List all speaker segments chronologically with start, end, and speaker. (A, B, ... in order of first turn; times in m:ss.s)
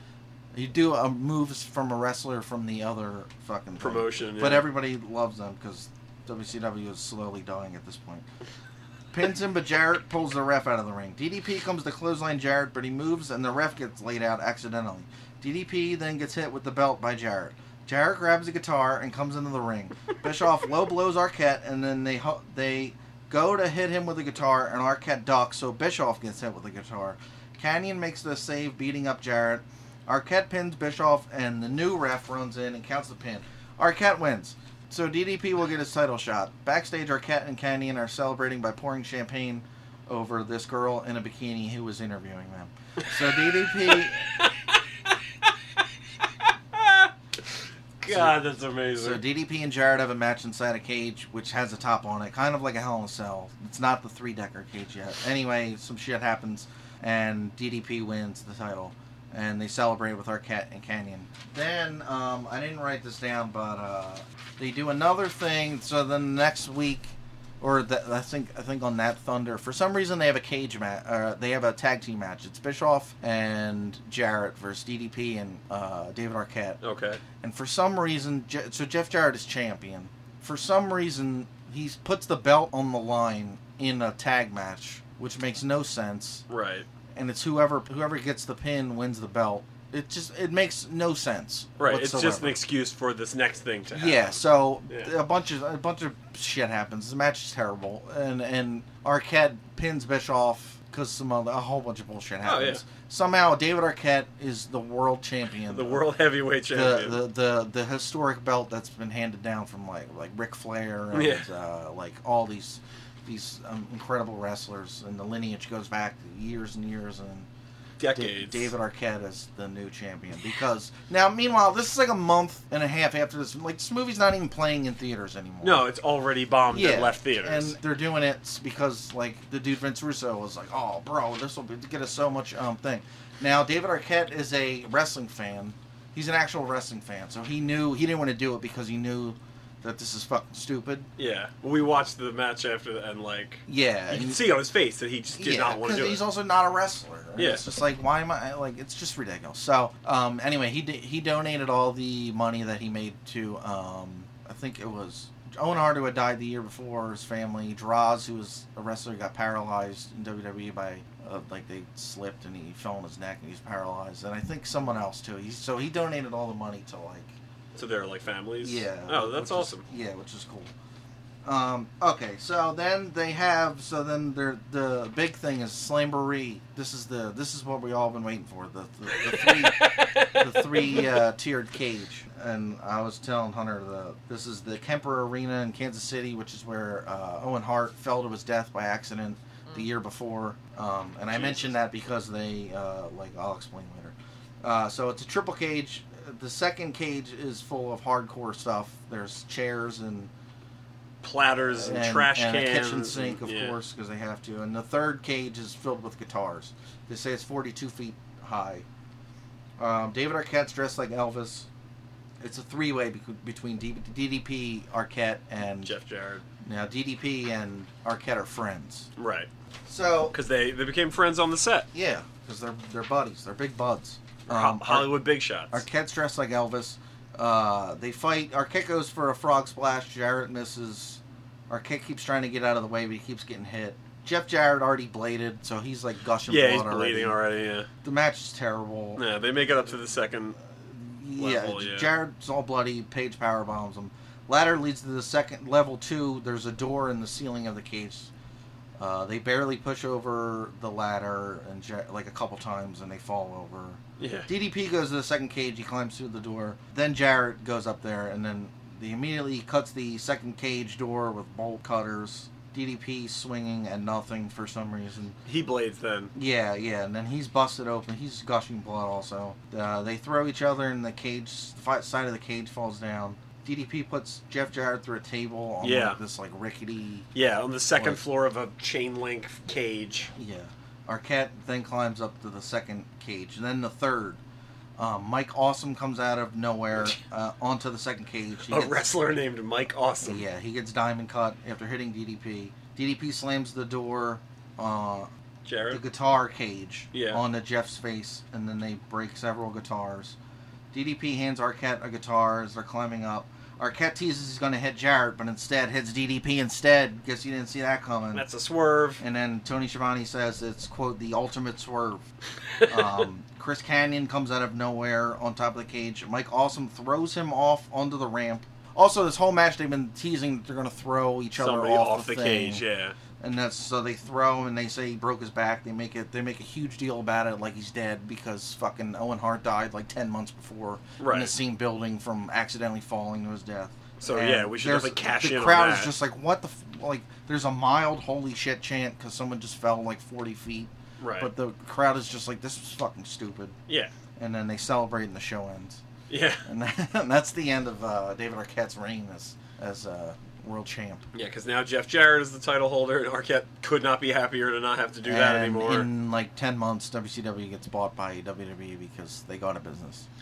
0:00.5-0:08.3 A
0:03.8-0:04.7 B
0:09.1-0:44.3 A
0:43.3-0:45.5 B
0:46.4-0:47.1 B
0:48.0-0:49.2 B
0:48.1-0:48.4 A
0:49.0-1:16.8 A
1:16.8-1:17.2 B
1:17.4-1:26.4 A
1:26.5-1:26.9 B
1:27.2-1:32.6 A
1:31.8-1:35.1 B
1:33.9-1:46.1 A
1:42.4-1:42.8 B
1:45.7-1:47.2 B
1:46.7-1:57.5 A
1:51.1-1:51.5 B
1:58.0-1:58.7 B
1:58.1-2:05.9 A
2:05.6-2:07.8 B
2:06.7-2:21.1 A
2:21.2-2:26.2 B
2:23.7-2:24.4 A
2:25.4-2:47.3 A
2:27.4-2:27.6 B
2:47.7-2:49.8 B
2:48.6-2:50.7 A
2:51.4-3:20.3 A
2:59.2-3:01.2 B
3:11.3-3:11.7 B
3:21.2-3:23.8 B
3:21.7-3:28.8 A
3:29.8-3:31.7 A
3:32.4-3:36.0 A
3:35.8-3:36.4 B
3:36.6-3:39.1 A
3:39.2-3:39.5 B
3:39.9-3:40.4 A
3:40.3-3:41.9 B
3:41.9-3:45.2 A
3:44.5-3:45.8 B
3:45.7-3:57.4 A
3:56.5-3:57.9 B
3:58.0-3:59.2 A
3:59.2-4:00.6 B
4:00.7-4:08.3 A
4:01.4-4:02.1 B
4:09.0-4:25.4 A
4:14.2-4:14.5 B
4:25.4-4:26.3 B
4:26.4-4:37.3 A
4:35.8-4:36.2 B
4:37.3-4:40.3 B
4:38.0-4:38.2 A
4:40.3-4:44.4 A
4:45.0-4:49.1 A
4:48.7-4:50.4 B
4:50.2-4:55.3 A
4:55.6-4:56.0 B
4:55.9-5:00.4 A
4:57.1-4:57.4 B
5:00.9-5:08.4 A
5:08.3-5:09.2 B
5:09.2-5:12.2 A
5:12.7-5:13.2 B
5:12.8-5:22.8 A
5:21.6-5:23.2 B
5:23.4-5:43.8 A
5:31.2-5:31.5 B
5:34.2-5:36.1 B
5:41.2-5:41.5 B
5:44.4-5:46.0 A
5:46.3-5:46.7 B
5:46.6-5:51.3 A
5:51.3-5:56.1 B
5:55.2-6:00.3 A